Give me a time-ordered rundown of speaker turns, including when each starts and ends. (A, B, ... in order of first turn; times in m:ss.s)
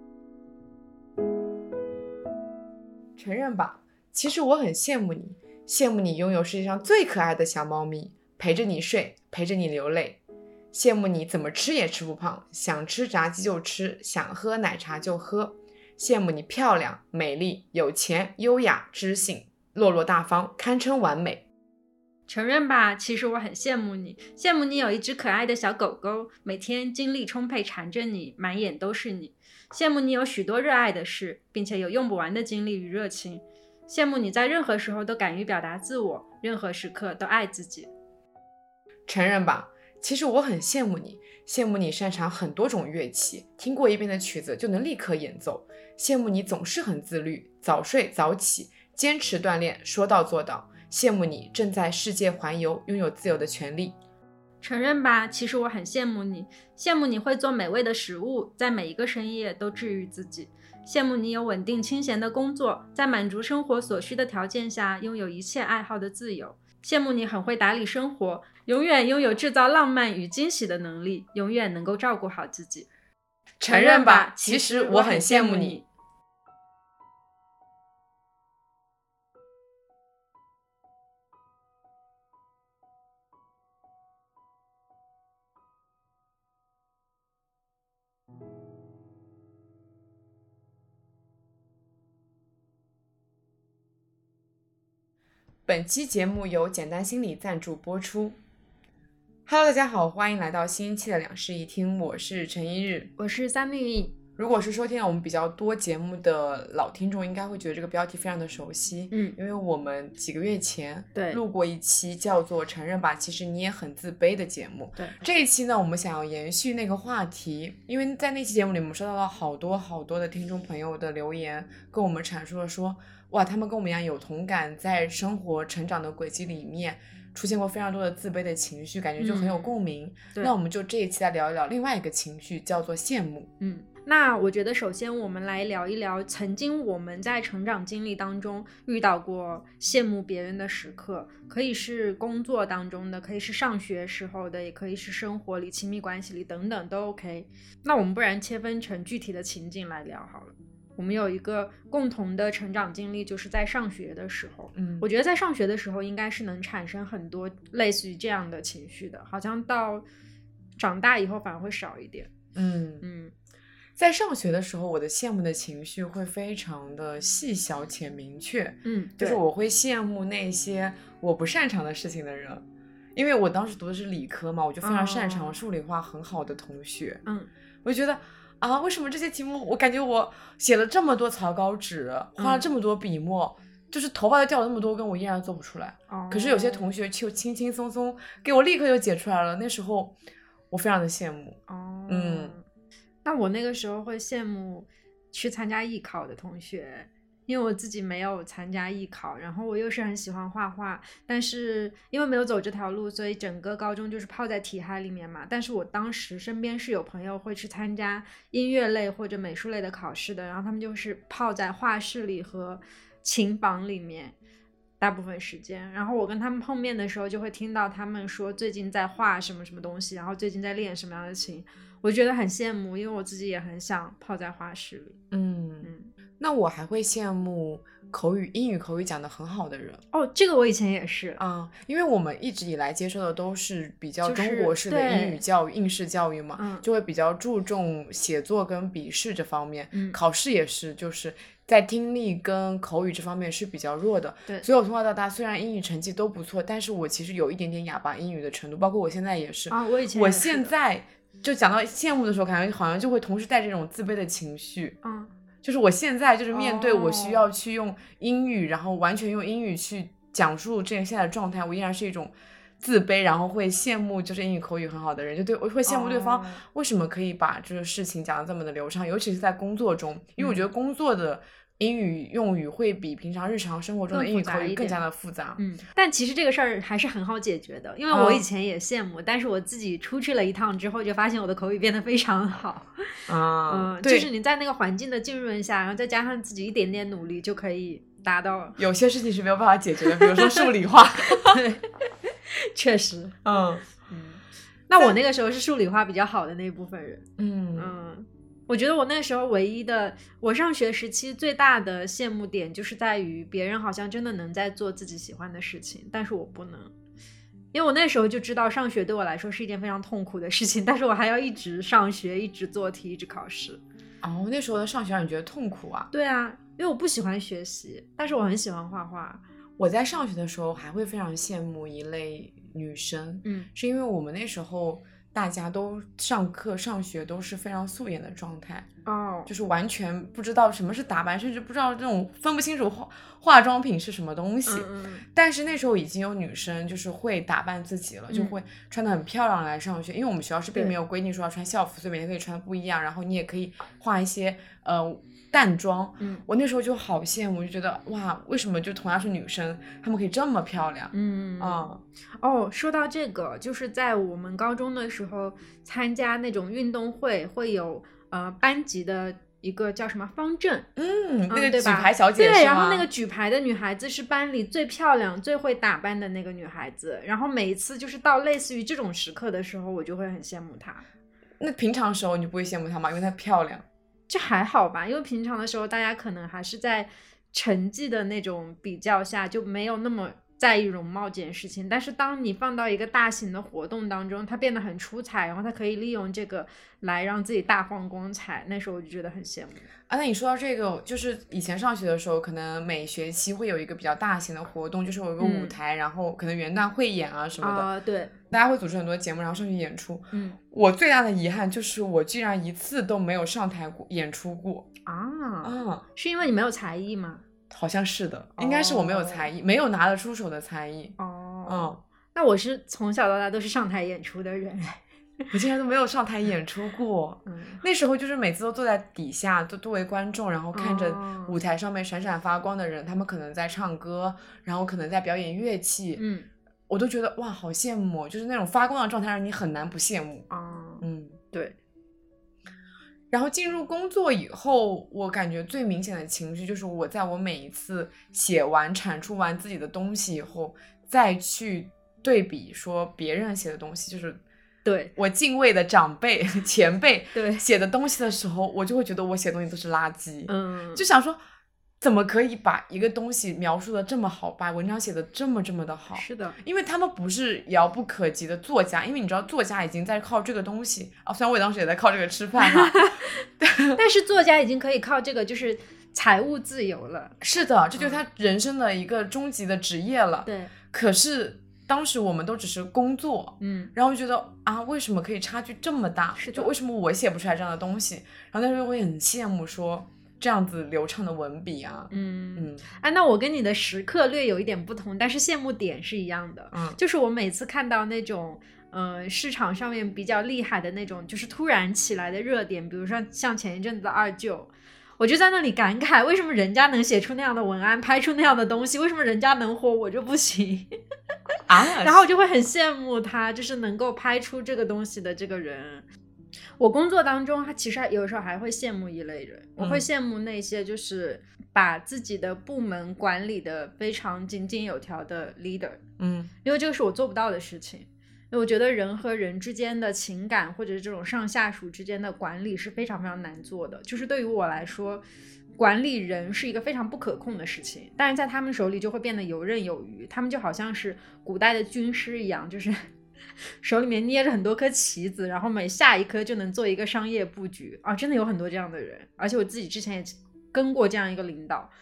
0:03.2-0:10.2 A
0:10.7-0:21.4 A
0:22.3-0:37.9 B
0:39.1-0:54.0 A
0:54.6-1:12.9 B
1:13.6-1:15.8 A
1:13.7-1:15.9 B
1:35.7-1:38.4 A
1:39.5-1:43.1 A
1:43.2-1:44.2 B
1:44.4-2:13.5 A
1:49.1-1:49.4 B
1:51.2-1:51.4 B
2:09.2-2:09.7 B
2:13.6-2:40.0 B
2:34.8-2:35.1 A
2:40.8-2:42.3 B
2:42.6-2:43.0 A
2:43.0-2:43.3 B
2:44.0-2:52.6 A
2:48.8-2:49.4 B
2:53.2-2:57.2 A
2:54.8-2:55.6 B
2:57.8-3:10.2 A
3:02.4-3:02.7 B
3:06.1-3:06.9 B
3:10.7-3:12.6 A
3:11.7-3:12.6 B
3:13.2-3:34.4 B
3:35.0-3:45.2 B
3:45.3-3:50.0 A
3:45.8-3:46.1 B
3:50.1-3:51.4 B
3:51.4-4:15.0 A
3:54.2-3:55.4 B
3:56.6-3:56.8 B
3:59.9-4:00.2 B
4:09.7-4:10.7 B
4:15.0-4:15.3 B
4:15.6-4:35.6 A
4:16.5-4:17.5 B
4:25.9-4:26.6 B
4:30.4-4:30.6 B
4:34.1-4:35.0 B
4:35.6-4:48.8 B
4:38.1-4:38.5 A
4:43.3-4:44.3 A
4:48.8-4:51.6 A
4:50.0-4:50.6 B
4:51.4-4:53.4 B
4:53.4-4:53.9 A
4:54.1-4:57.2 B
4:57.4-4:57.9 A
4:57.8-5:06.9 B
5:07.7-5:13.8 B
5:14.2-5:16.1 A
5:16.1-5:19.4 B
5:19.8-5:28.9 A
5:23.4-5:23.7 B
5:29.0-5:29.5 B
5:29.5-5:52.0 A
5:34.7-5:35.2 B
5:38.3-5:38.6 B
5:51.1-5:51.9 B
5:52.4-6:00.9 B
6:01.0-6:03.1 A
6:01.5-6:11.0 B
6:11.6-6:13.8 A
6:14.3-6:29.9 B
6:30.1-6:37.9 A
6:35.4-6:35.8 B
6:37.6-6:38.3 B
6:38.5-6:44.9 A
6:40.3-6:40.6 B
6:45.1-6:47.4 B
6:45.6-6:46.1 A
6:47.7-6:51.2 A
6:48.6-6:49.5 B
6:51.2-6:55.5 B
6:51.7-6:52.0 A
6:55.5-7:06.2 A
6:57.5-6:57.8 B
7:00.7-7:01.6 B
7:06.2-7:06.5 B
7:06.9-7:10.5 A
7:10.5-7:11.8 B
7:11.0-7:11.4 A
7:13.3-7:24.4 A
7:24.8-7:25.1 B
7:25.2-7:31.4 A
7:27.3-7:27.6 B
7:30.5-7:31.0 B
7:32.0-7:44.0 A
7:36.2-7:36.6 B
7:42.6-7:43.3 B
7:44.0-7:48.2 B
7:47.4-8:02.9 A
7:50.4-7:50.7 B
7:53.6-7:53.9 B
7:56.4-7:56.7 B
8:02.1-8:20.9 B
8:06.7-8:07.0 A
8:21.7-8:22.3 A
8:22.0-8:26.0 B
8:26.8-8:36.0 B
8:29.8-8:30.1 A
8:36.2-8:36.5 A
8:36.6-8:45.2 B
8:45.8-8:53.1 B
8:53.8-9:01.9 B